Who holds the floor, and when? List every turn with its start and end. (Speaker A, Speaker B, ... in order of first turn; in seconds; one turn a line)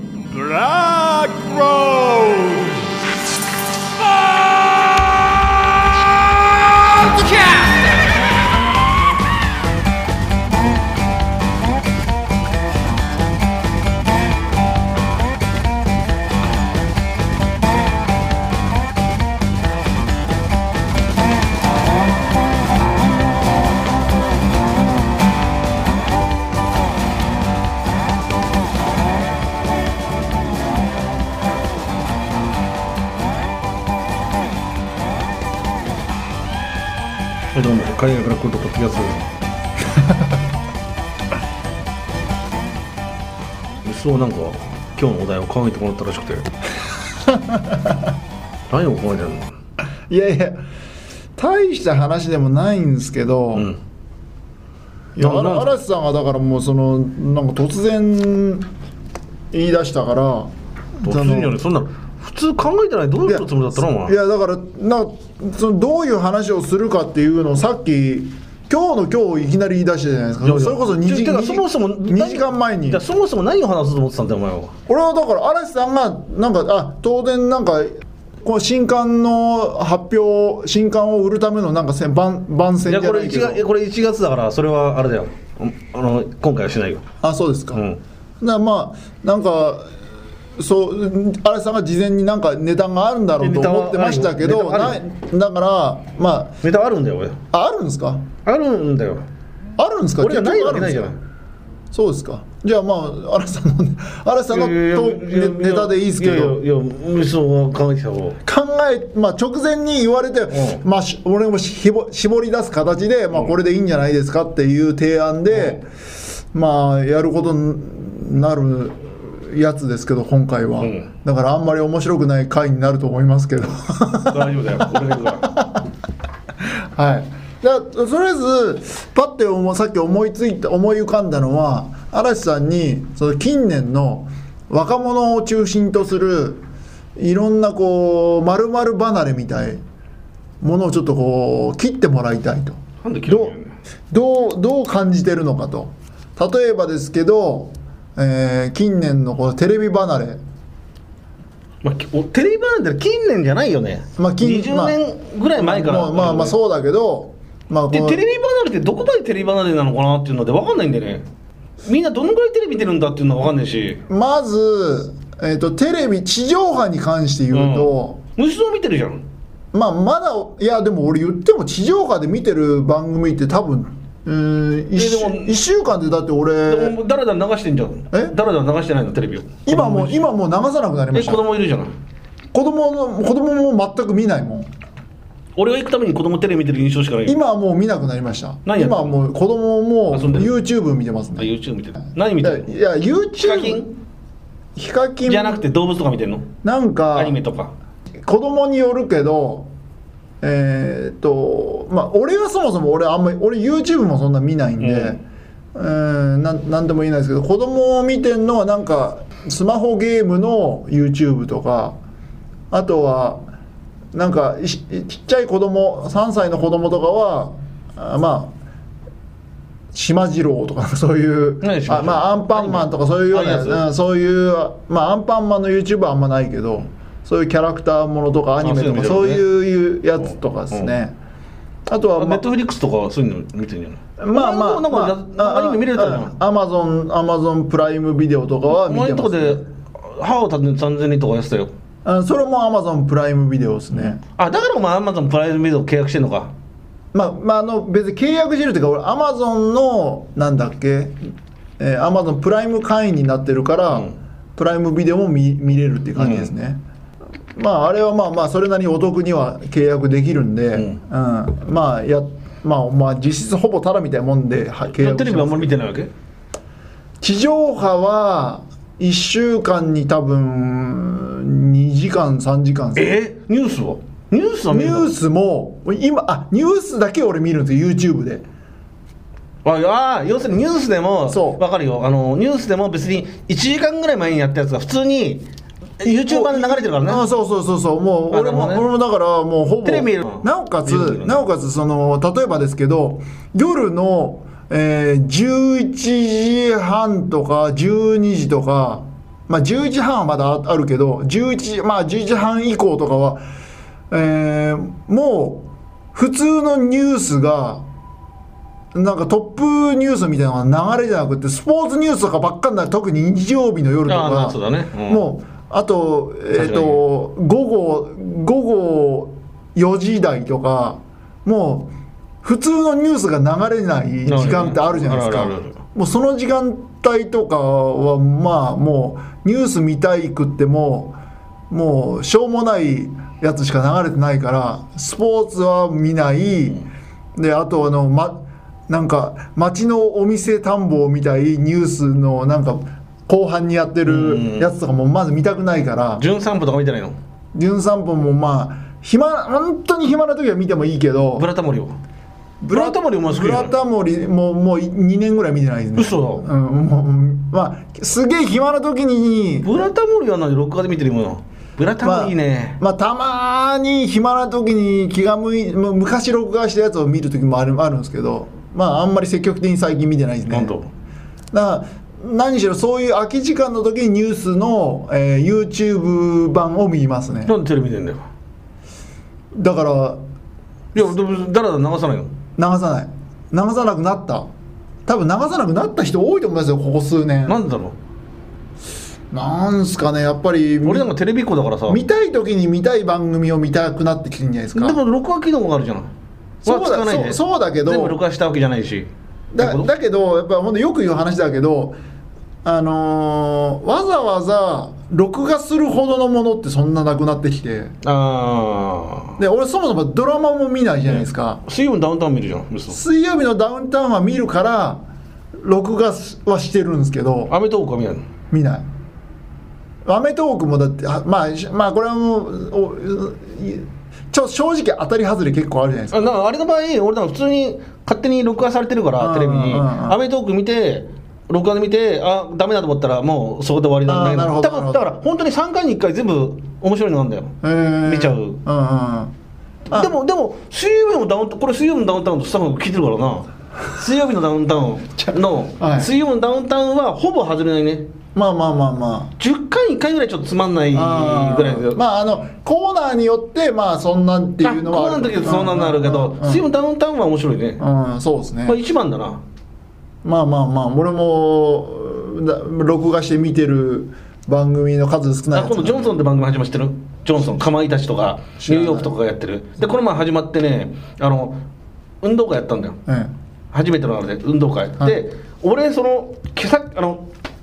Speaker A: 0.3-3.1
Speaker A: 4.0-8.1
Speaker B: 37.5-39.3
Speaker B: 43.8-46.5
Speaker C: 47.3-48.1
Speaker B: 48.7-49.5
Speaker C: 50.1-50.6
Speaker C: 51.4-53.7
Speaker C: 55.2-58.7
Speaker B: 55.2-55.7
Speaker C: 59.5-60.5
Speaker C: 61.0-61.6
Speaker B: 61.0-64.2
Speaker C: 63.2-73.0
Speaker B: 70.4-74.7
Speaker C: 74.9-83.6
Speaker B: 82.9-87.0
Speaker C: 87.2-87.8
Speaker B: 87.7-88.0
Speaker C: 88.4-89.9
Speaker C: 90.6-96.5
Speaker B: 93.4-95.0
Speaker B: 96.6-97.4
Speaker C: 97.5-98.2
Speaker B: 98.5-99.2
Speaker C: 99.8-101.1
Speaker B: 100.2-101.2
Speaker C: 101.9-106.6
Speaker B: 104.5-108.4
Speaker C: 108.5-115.8
Speaker B: 110.5-110.8
Speaker B: 115.5-115.8
Speaker C: 116.5-125.8
Speaker B: 120.8-121.1
Speaker B: 124.3-125.5
Speaker C: 127.0-136.6
Speaker C: 137.2-139.8
Speaker C: 140.6-143.6
Speaker B: 143.0-143.7
Speaker C: 144.1-150.4
Speaker B: 151.8-156.6
Speaker C: 154.2-155.0
Speaker C: 155.6-158.2
Speaker B: 157.9-161.2
Speaker B: 161.8-164.0
Speaker C: 164.1-168.2
Speaker B: 167.5-169.2
Speaker C: 169.7-177.0
Speaker B: 175.0-175.6
Speaker B: 176.7-180.2
Speaker C: 179.7-181.4
Speaker B: 181.1-181.9
Speaker C: 182.5-184.7
Speaker B: 185.6-187.4
Speaker C: 187.2-191.5
Speaker B: 188.7-189.2
Speaker B: 190.1-190.5
Speaker B: 191.4-192.7
Speaker C: 192.4-193.8
Speaker B: 193.4-193.9
Speaker C: 194.8-195.6
Speaker B: 195.3-196.5
Speaker C: 196.6-197.4
Speaker B: 197.2-197.7
Speaker C: 198.2-199.7
Speaker C: 200.4-205.2
Speaker B: 204.8-205.2
Speaker C: 205.7-212.0
Speaker C: 212.7-213.4
Speaker C: 214.1-218.5
Speaker C: 219.9-231.2
Speaker B: 221.6-223.8
Speaker B: 228.6-229.5
Speaker C: 231.9-232.4
Speaker B: 232.2-236.3
Speaker C: 234.2-239.6
Speaker B: 238.7-241.7
Speaker C: 242.1-244.2
Speaker B: 243.9-246.5
Speaker C: 247.1-251.2
Speaker C: 251.8-256.8
Speaker B: 256.2-256.5
Speaker C: 257.6-265.7
Speaker B: 265.0-266.1
Speaker C: 267.2-273.1
Speaker B: 272.9-275.1
Speaker C: 274.7-278.4
Speaker B: 279.6-285.4
Speaker C: 281.3-281.6
Speaker B: 286.0-287.2
Speaker C: 286.0-303.4
Speaker B: 288.3-288.9
Speaker B: 289.9-291.4
Speaker C: 304.1-307.8
Speaker C: 308.9-321.9
Speaker B: 314.1-315.2
Speaker B: 316.5-317.0
Speaker C: 322.4-331.2
Speaker B: 324.2-325.8
Speaker C: 331.7-336.8
Speaker C: 337.4-346.2
Speaker B: 344.1-344.7
Speaker B: 346.2-347.2
Speaker C: 347.6-351.5
Speaker B: 351.4-352.0
Speaker C: 352.6-359.7
Speaker B: 352.7-353.7
Speaker B: 356.0-356.5
Speaker B: 359.6-362.8
Speaker C: 362.0-370.8
Speaker B: 370.5-370.9
Speaker C: 371.5-377.5
Speaker B: 377.5-378.3
Speaker C: 379.6-380.2
Speaker B: 380.9-382.3
Speaker C: 382.6-384.5
Speaker C: 385.1-387.6
Speaker B: 387.5-387.9
Speaker C: 389.3-391.1
Speaker B: 390.8-392.0
Speaker C: 391.9-395.0
Speaker B: 394.7-396.1
Speaker C: 396.6-398.2
Speaker B: 396.6-399.9
Speaker C: 399.5-402.0
Speaker C: 402.6-407.9
Speaker B: 408.0-409.4
Speaker C: 409.4-411.6
Speaker B: 411.1-413.0
Speaker C: 412.9-415.0
Speaker C: 415.6-417.5
Speaker B: 417.5-418.2
Speaker C: 418.5-418.9
Speaker C: 420.1-426.3
Speaker B: 426.1-437.5
Speaker C: 429.2-430.2
Speaker C: 434.1-435.1
Speaker C: 437.6-439.3
Speaker B: 438.1-438.6
Speaker B: 439.9-448.1
Speaker C: 445.2-446.1
Speaker C: 448.4-449.3
Speaker B: 449.4-452.0
Speaker C: 450.9-456.6
Speaker B: 454.6-457.8
Speaker C: 457.8-458.8
Speaker B: 458.7-459.4
Speaker C: 460.2-466.1
Speaker B: 465.5-471.6
Speaker C: 468.6-469.1
Speaker B: 472.2-473.0
Speaker C: 473.1-473.3
Speaker B: 473.7-477.3